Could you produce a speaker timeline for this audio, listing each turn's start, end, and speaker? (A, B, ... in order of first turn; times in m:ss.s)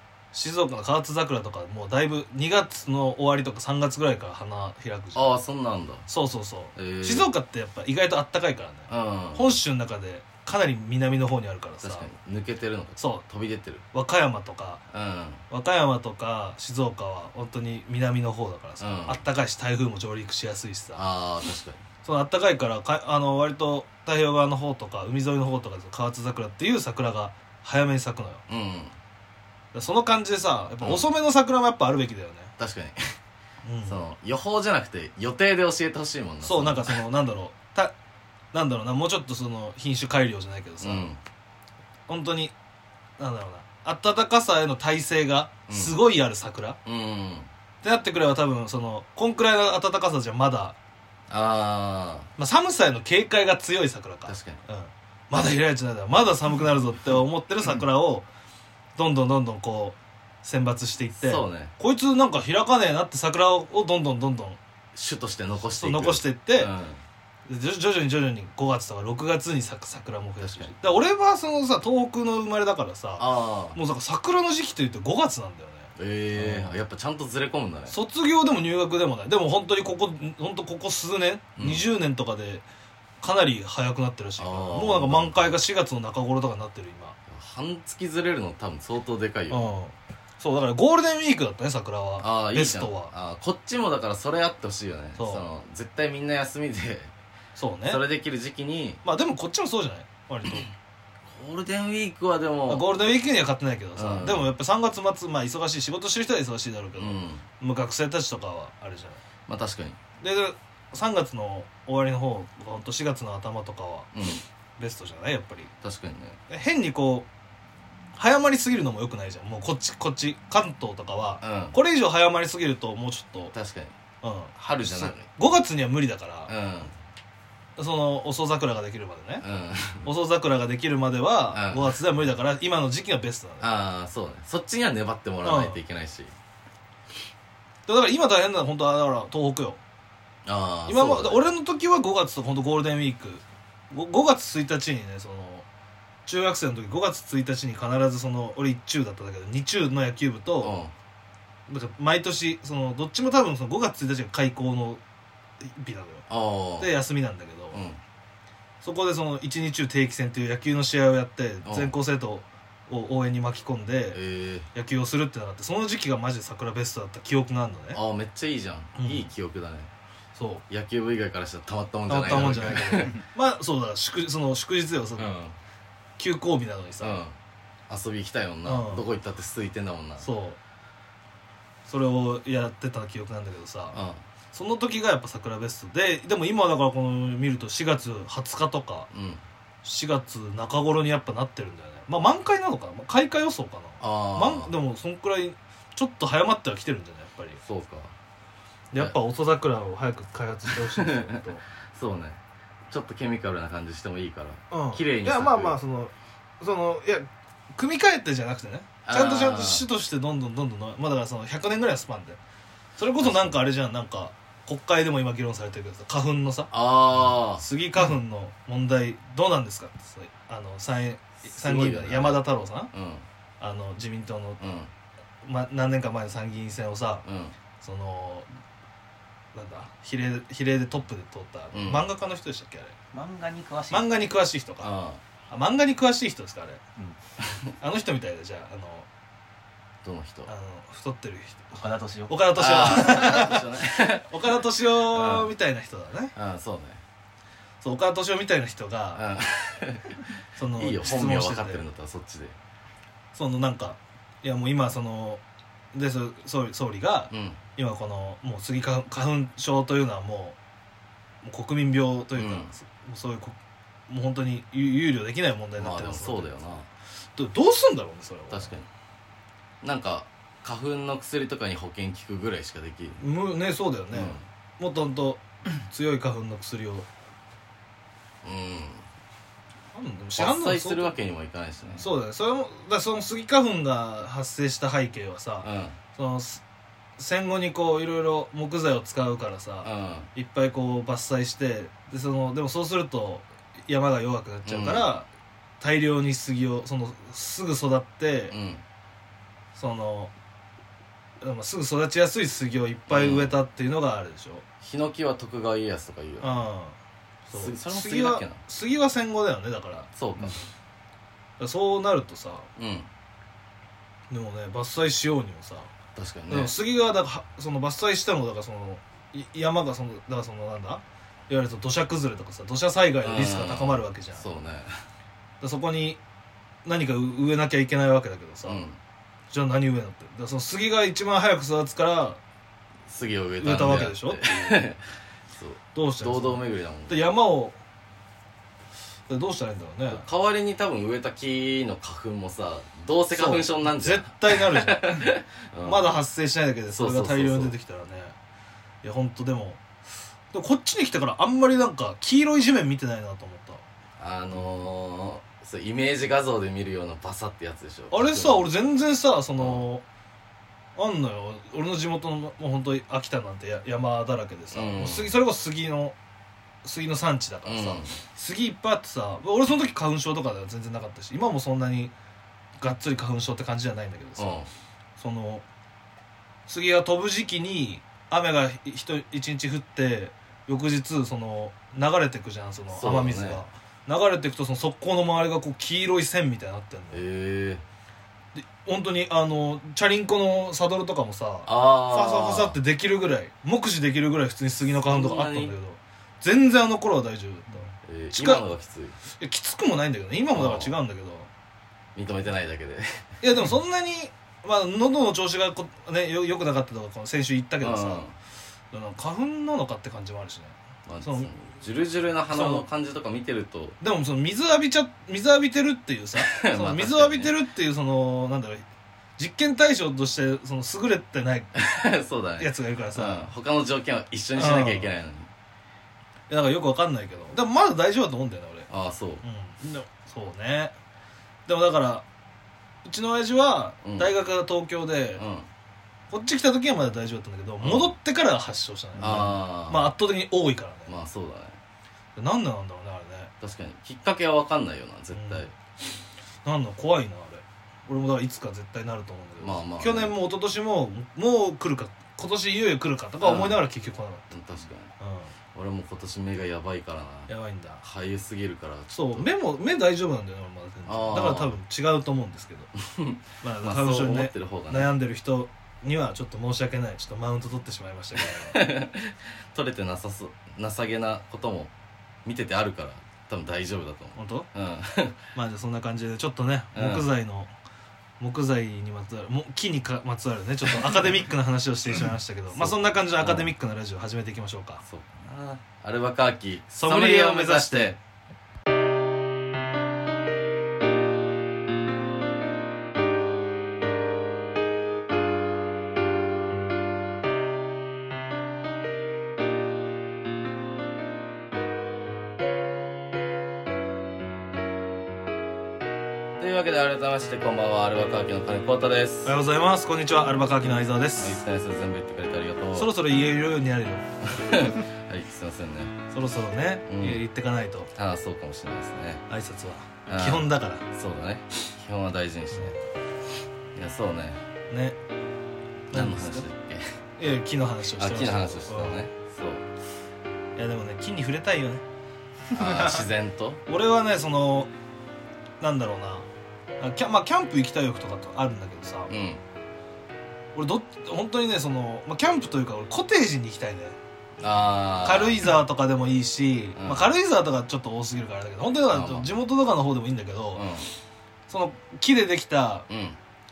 0:00.3-0:05.2 A
0:05.2-0:06.1 B
0:06.1-0:12.1 A
0:06.8-0:07.3 B
0:08.9-0:09.5 B
0:11.8-0:13.8 B
0:13.0-0:13.2 A
0:13.9-0:14.8 A
0:14.9-0:15.4 B
0:15.5-0:21.0 A
0:18.8-0:19.2 B
0:21.0-0:21.8 B
0:22.0-0:28.4 A
0:28.5-0:29.0 B
0:29.7-0:32.5 A
0:32.6-0:33.2 B
0:33.6-0:34.0 A
0:33.9-0:37.0 B
0:36.4-0:38.0 A
0:38.5-0:41.1 A
0:40.8-0:41.2 B
0:42.1-0:42.5 A
0:43.2-0:46.8 A
0:45.7-0:46.0 B
0:46.8-0:47.5 B
0:47.8-0:50.8 A
0:51.3-0:52.3 B
0:52.4-0:58.3 A
0:54.3-0:54.6 B
0:59.0-1:04.6 A
1:01.2-1:01.7 B
1:05.0-1:07.0 B
1:05.7-1:06.7 A
1:07.5-1:16.8 A
1:10.4-1:10.8 B
1:13.2-1:13.8 B
1:16.0-1:18.0 B
1:17.9-1:22.6 A
1:21.6-1:21.8 B
1:23.2-1:27.2 A
1:24.4-1:25.6 B
1:27.3-1:29.7 B
1:29.5-1:33.1 A
1:32.2-1:37.1 B
1:35.2-1:35.5 A
1:37.6-1:38.0 A
1:37.9-1:39.0 B
1:39.0-1:40.7 A
1:41.3-1:42.9 B
1:42.7-1:49.2 A
1:44.0-1:44.5 B
1:47.0-1:47.4 B
1:49.5-1:50.0 B
1:50.2-1:54.1 A
1:54.1-1:54.4 B
1:54.8-1:55.7 A
1:55.8-1:56.4 B
1:56.5-1:57.3 A
1:58.2-2:03.5 A
2:01.4-2:01.8 B
2:03.5-2:04.0 B
2:04.2-2:06.5 A
2:04.6-2:05.3 B
2:06.5-2:06.9 B
2:07.8-2:09.4 A
2:09.4-2:10.0 B
2:10.0-2:13.7 A
2:11.5-2:11.9 B
2:13.6-2:16.3 B
2:15.4-2:15.8 A
2:17.9-2:19.8 A
2:20.5-2:21.4 B
2:20.9-2:25.7 A
2:26.3-2:30.8 A
2:30.6-2:30.9 B
2:31.7-2:35.0 A
2:35.6-2:36.3 A
2:36.3-2:36.9 B
2:36.8-2:37.8 A
2:37.7-2:38.0 B
2:38.8-2:44.2 A
2:41.6-2:41.9 B
2:44.1-2:44.7 B
2:44.8-2:48.0 A
2:47.9-2:49.9 B
2:49.0-2:49.3 A
2:50.4-2:50.6 A
2:50.7-2:53.2 B
2:52.1-2:55.4 A
2:55.2-2:55.5 B
2:56.2-2:57.2 A
2:57.0-2:57.4 B
2:57.9-3:00.3 B
2:58.6-2:59.0 A
3:00.2-3:00.6 A
3:01.9-3:04.0 A
3:03.9-3:04.2 B
3:04.5-3:09.1 A
3:09.1-3:09.4 B
3:09.8-3:17.6 A
3:14.0-3:14.7 B
3:17.6-3:18.1 B
3:18.9-3:21.6 A
3:20.7-3:22.4 B
3:22.9-3:25.8 B
3:24.7-3:32.4 A
3:29.1-3:29.9 B
3:33.0-3:42.9 A
3:33.2-3:33.6 B
3:36.7-3:37.6 B
3:41.4-3:43.2 B
3:43.6-3:44.8 A
3:44.6-3:44.9 B
3:45.4-3:47.2 A
3:47.2-3:47.6 B
3:47.8-3:48.5 A
3:49.5-3:53.0 A
3:51.7-3:52.1 B
3:53.1-3:54.1 C
3:53.9-3:54.9 A
3:54.8-3:55.2 B
3:55.5-3:56.8 A
3:57.4-3:57.7 B
3:57.8-3:59.1 A
4:00.0-4:00.5 B
4:00.5-4:06.3 A
4:01.8-4:03.0 C
4:02.6-4:04.3 B
4:05.1-4:05.5 B
4:06.4-4:07.0 B
4:07.8-4:09.2 A
4:09.2-4:10.2 B
4:10.6-4:11.8 A
4:10.8-4:12.6 B
4:13.3-4:15.4 A
4:15.9-4:20.6 A
4:17.3-4:17.6 B
4:21.4-4:23.6 A
4:22.4-4:22.7 B
4:24.1-4:26.5 A
4:25.8-4:26.9 B
4:27.4-4:28.7 A
4:28.5-4:28.9 B
4:29.8-4:33.2 B
4:33.2-4:37.1 A
4:34.1-4:34.4 B
4:38.4-4:39.0 B
4:39.9-4:41.2 A
4:40.4-4:42.1 B
4:42.0-4:46.6 A
4:45.6-4:46.0 B
4:47.2-4:55.3 A
4:49.8-4:50.3 B
4:54.7-4:55.1 B
4:55.8-4:58.5 A
4:58.5-4:58.8 B
4:59.8-5:00.3 A
5:01.4-5:04.6 A
5:03.1-5:03.5 B
5:04.8-5:06.6 B
5:06.4-5:07.0 A
5:07.5-5:10.1 A
5:07.5-5:08.6 B
5:10.2-5:10.6 B
5:11.6-5:12.7 A
5:12.8-5:13.1 B
5:14.3-5:15.9 A
5:16.2-5:16.7 B
5:16.5-5:24.4 A
5:23.2-5:25.0 B
5:25.6-5:26.2 A
5:26.8-5:28.8 A
5:28.6-5:29.0 B
5:29.5-5:32.4 A
5:33.1-5:37.3 B
5:33.6-5:34.8 A
5:36.0-5:37.8 A
5:39.3-5:40.2 A
5:40.0-5:46.1 B
5:43.3-5:45.3 A
5:45.8-5:48.4 A
5:46.9-5:47.8 B
5:49.0-5:49.8 A
5:50.5-5:53.8 A
5:54.2-5:58.7 B
5:58.1-6:00.0 A
5:59.6-5:59.8 B
6:01.0-6:06.2 A
6:04.7-6:05.3 B
6:06.8-6:12.1 A
6:07.7-6:08.2 B
6:12.8-6:14.6 A
6:14.4-6:14.7 B
6:15.2-6:15.6 A
6:16.7-6:27.2 A
6:22.9-6:23.6 B
6:27.1-6:27.8 B
6:28.6-6:38.6 A
6:31.7-6:32.8 B
6:35.0-6:35.7 B
6:38.0-6:39.2 B
6:39.4-6:41.5 A
6:40.5-6:41.0 B
6:42.2-6:43.3 B
6:43.4-6:48.2 A
6:47.8-6:48.4 B
6:48.9-6:51.5 A
6:51.1-6:54.0 B
6:52.5-6:52.9 A
6:54.0-6:58.8 A
6:56.4-6:57.6 B
6:59.4-7:01.7 A
7:01.8-7:05.5 B
7:02.6-7:03.5 A
7:04.6-7:05.1 A
7:06.5-7:08.9 A
7:08.9-7:09.4 B
7:09.4-7:11.0 A
7:11.7-7:12.2 A
7:13.0-7:15.4 A
7:14.0-7:14.3 B
7:15.4-7:15.7 B
7:16.3-7:21.2 A
7:17.8-7:18.1 B
7:19.2-7:20.1 B
7:21.1-7:21.8 B
7:22.4-7:23.5 A
7:23.6-7:25.7 B
7:25.3-7:25.6 A
7:26.6-7:34.5 A
7:29.6-7:30.4 B
7:33.4-7:33.8 B
7:34.5-7:35.1 B
7:35.2-7:35.5 A
7:35.7-7:39.5 B
7:37.5-7:38.0 A
7:39.1-7:42.9 A
7:41.1-7:41.7 B
7:43.0-7:45.1 B
7:43.6-7:48.8 A
7:48.4-7:51.9 B
7:52.4-7:55.4 B
7:54.4-7:54.7 A
7:55.6-7:57.7 A
7:57.0-7:57.3 B
7:58.4-8:05.0 A
8:02.7-8:03.7 B
8:05.0-8:08.2 B
8:06.9-8:08.2 A
8:26.6-8:29.6 B
8:29.4-8:31.6 A
8:31.4-8:33.1 B
8:33.0-8:34.2 A
8:34.4-8:36.2 B
8:36.3-8:38.1 A
8:37.1-8:37.4 B
8:38.1-8:39.4 B
8:39.5-8:41.0 A
8:40.3-8:43.0 B
8:44.0-8:44.6 B
8:44.9-8:45.2 A
8:46.1-8:46.7 A
8:46.1-8:47.2 B
8:47.4-8:49.2 A
8:48.2-8:49.9 B
8:50.8-8:52.0 A
8:52.7-8:53.8 B
8:52.8-8:53.2 A
8:53.9-8:54.9 A
8:55.8-8:56.5 A
8:57.0-8:59.3 A
8:59.3-8:59.6 B
9:00.7-9:04.2 A
9:04.6-9:05.6 B
9:05.2-9:10.8 A
9:07.0-9:07.3 B
9:09.1-9:09.5 B
9:10.7-9:11.1 B
9:11.7-9:13.1 A
9:13.1-9:13.4 B